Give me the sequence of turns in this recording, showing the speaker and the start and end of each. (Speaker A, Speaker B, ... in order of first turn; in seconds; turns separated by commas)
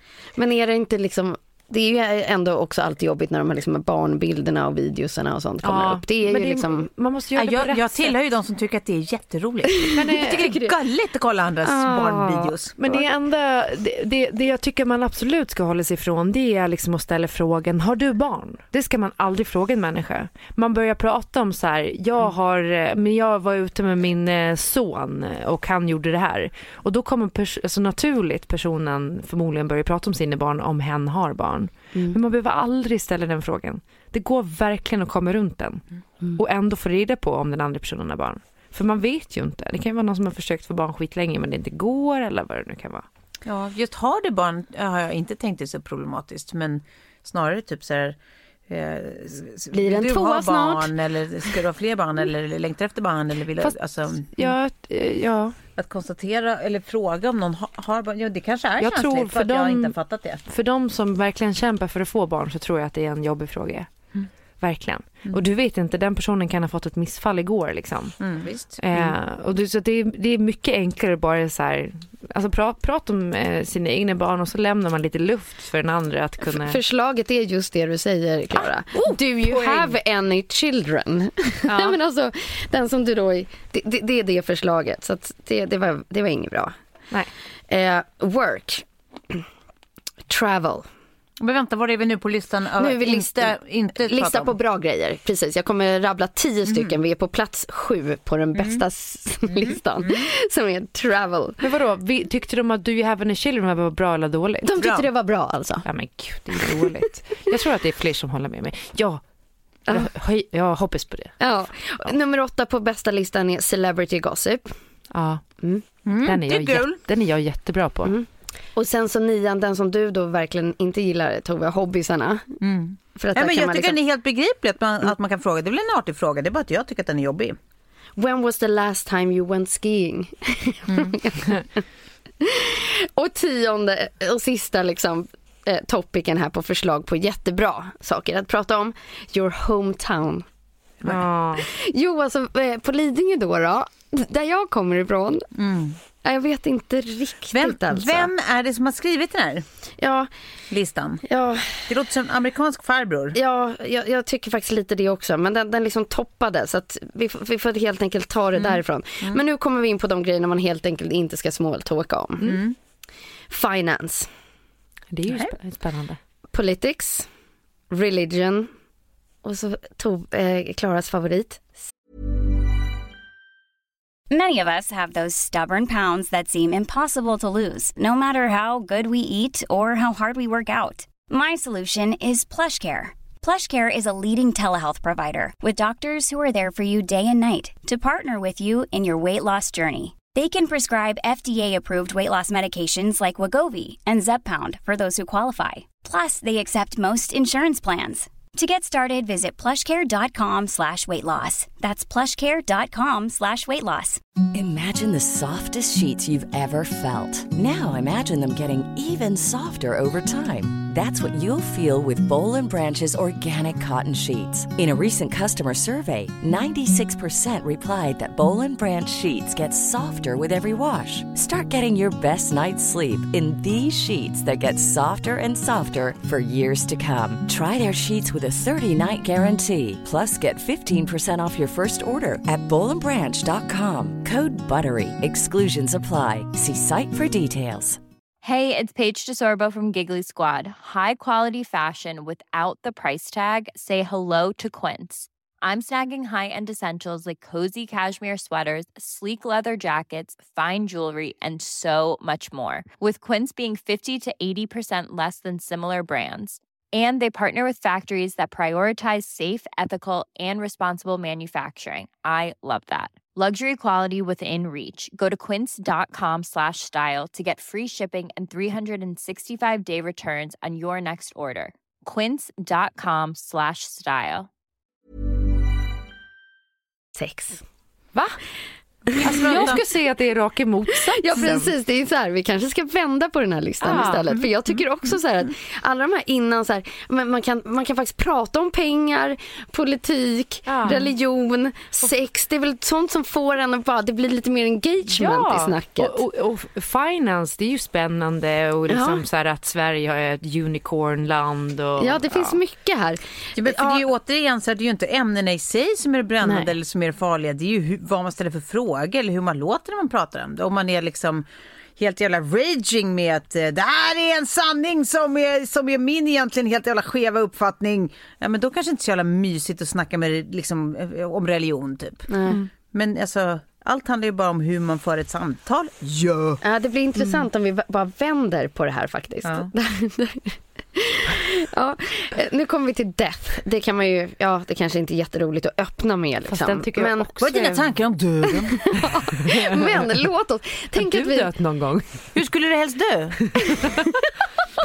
Speaker A: 0.3-6.9, Speaker B: 5.6-8.1, Speaker C: 7.3-13.0, Speaker A: 9.9-10.7, Speaker B: 9.9-10.6, Speaker A: 11.6-12.5, Speaker B: 12.8-35.8, Speaker B: 36.3-43.0, Speaker C: 43.4-48.1, Speaker C: 48.7-54.5, Speaker A: 49.7-50.9, Speaker B: 54.3-55.6, Speaker C: 55.8-60.4, Speaker B: 58.8-59.9, Speaker B: 60.5-63.9, Speaker B: 64.6-68.2, Speaker C: 68.2-69.1, Speaker B: 68.8-76.8, Speaker A: 76.4-86.7, Speaker B: 78.5-80.0, Speaker B: 81.7-82.0, Speaker A: 87.7-89.4, Speaker A: 90.3-90.9, Speaker C: 91.4-94.5, Speaker A: 92.8-101.7, Speaker C: 96.7-96.9, Speaker C: 98.5-98.8, Speaker C: 99.5-100.2, Speaker B: 101.6-104.7, Speaker A: 104.6-105.9, Speaker C: 104.8-105.1, Speaker B: 105.8-109.2, Speaker A: 106.6-107.0, Speaker B: 109.9-111.3, Speaker A: 111.4-114.8, Speaker B: 115.1-115.4, Speaker C: 116.0-117.0, Speaker B: 116.2-118.1, Speaker A: 118.0-122.5, Speaker C: 122.6-127.5, Speaker A: 123.2-124.0, Speaker A: 128.2-131.8, Speaker C: 130.9-131.2, Speaker A: 132.4-140.4, Speaker B: 141.0-141.7, Speaker A: 141.6-145.4, Speaker C: 145.5-146.0, Speaker A: 146.2-148.3, Speaker C: 147.5-149.6, Speaker A: 150.0-150.3, Speaker C: 150.7-151.2, Speaker A: 151.2-151.9, Speaker C: 151.9-153.4, Speaker A: 153.3-162.6, Speaker C: 158.6-159.4, Speaker C: 162.4-162.7, Speaker A: 163.5-164.3, Speaker B: 165.1-166.2, Speaker C: 165.3-165.5, Speaker A: 166.5-167.3, Speaker A: 167.9-168.7, Speaker A: 169.4-171.8, Speaker D: 174.3-204.2, Speaker E: 204.5-238.0, Speaker F: 238.4-274.5, Speaker A: 277.1-277.6, Speaker B: 279.1-281.7, Speaker A: 279.2-279.8, Speaker C: 279.3-279.8, Speaker A: 280.9-296.2, Speaker B: 283.8-284.2, Speaker B: 290.7-291.1, Speaker B: 295.1-302.6, Speaker A: 298.9-299.2, Speaker A: 302.0-304.1, Speaker C: 303.6-311.4, Speaker B: 306.4-306.7, Speaker C: 312.0-326.6, Speaker A: 322.3-322.6, Speaker A: 326.6-337.3, Speaker C: 329.4-329.7, Speaker B: 336.5-337.9, Speaker C: 337.4-339.1, Speaker A: 338.9-341.5, Speaker B: 339.4-339.8, Speaker B: 341.0-342.4, Speaker C: 342.3-343.4